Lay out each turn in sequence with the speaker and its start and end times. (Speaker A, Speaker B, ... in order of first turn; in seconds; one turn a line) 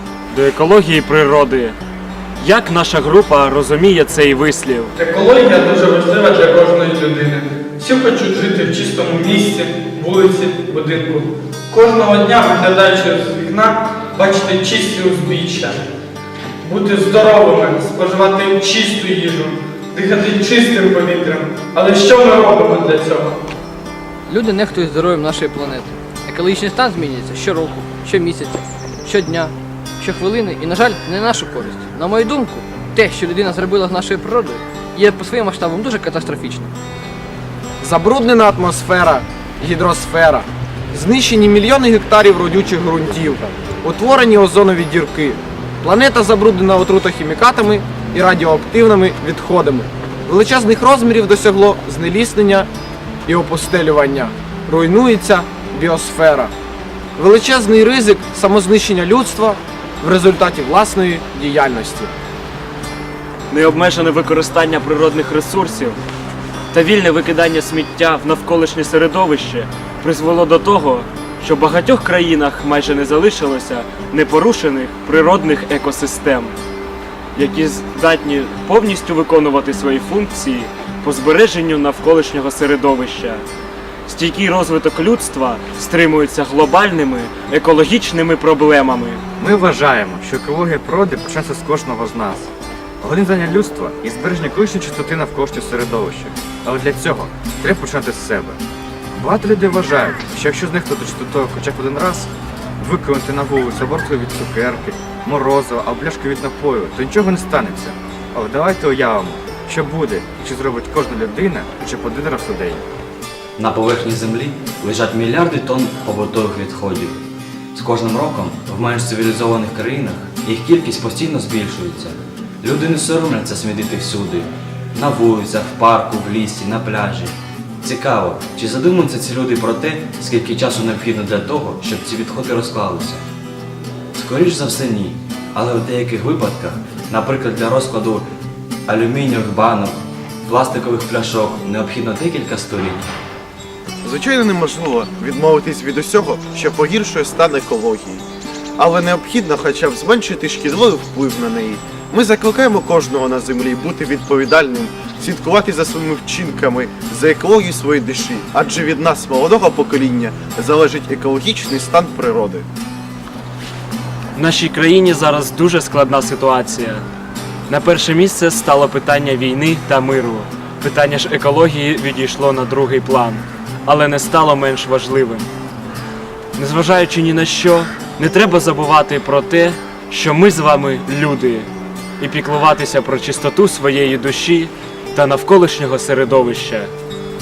Speaker A: 0.3-1.8
Speaker A: 2.4-4.9
Speaker B: 5.0-15.8
Speaker B: 16.6-23.4
Speaker C: 24.3-36.7
Speaker D: 37.8-52.7
Speaker D: 53.2-56.5
Speaker D: 57.1-62.1
Speaker A: 63.5-66.0
Speaker A: 66.7-76.5
Speaker A: 77.3-83.4
Speaker A: 84.1-89.2
Speaker E: 89.4-92.5
Speaker E: 93.0-98.6
Speaker E: 99.1-112.8
Speaker F: 113.6-117.2
Speaker F: 117.7-133.2
Speaker F: 134.1-138.2
Speaker F: 138.9-143.1
Speaker G: 144.0-148.2
Speaker G: 148.8-162.7
Speaker A: 164.3-167.0
Speaker A: 167.7-175.5
Speaker A: 176.6-181.7
Speaker A: 182.2-186.9